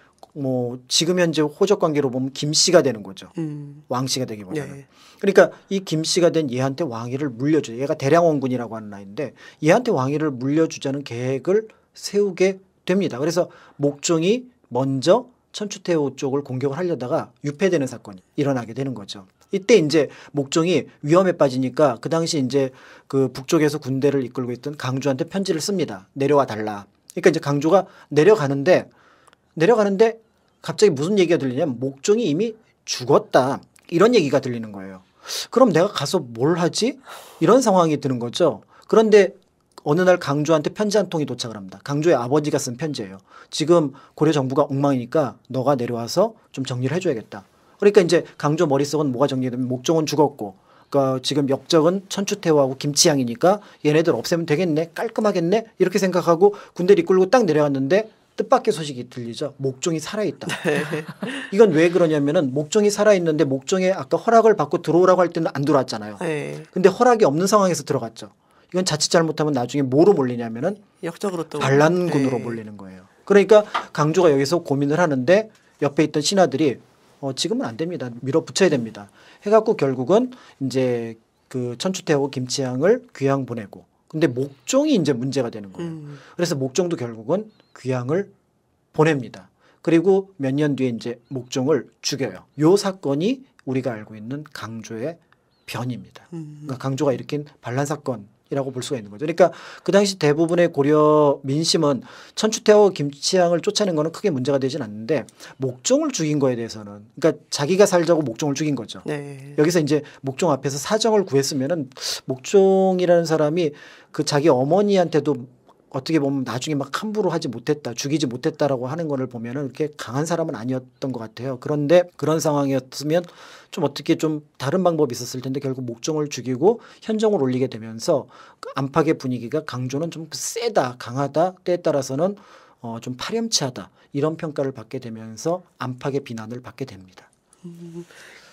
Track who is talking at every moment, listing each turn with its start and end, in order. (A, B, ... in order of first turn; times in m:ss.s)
0:00.3-0:03.3 A
0:03.4-0:03.8 B
0:03.9-0:28.9 A
0:04.5-0:04.8 B
0:29.6-1:00.6 A
1:00.5-1:01.5 B
1:01.4-1:10.8 A
1:06.2-1:06.7 B
1:11.0-1:12.6 B
1:11.6-1:28.3 A
1:25.8-1:26.2 B
1:28.9-2:17.3 A
1:36.3-1:36.7 B
1:49.0-1:49.6 B
2:17.6-2:18.2 B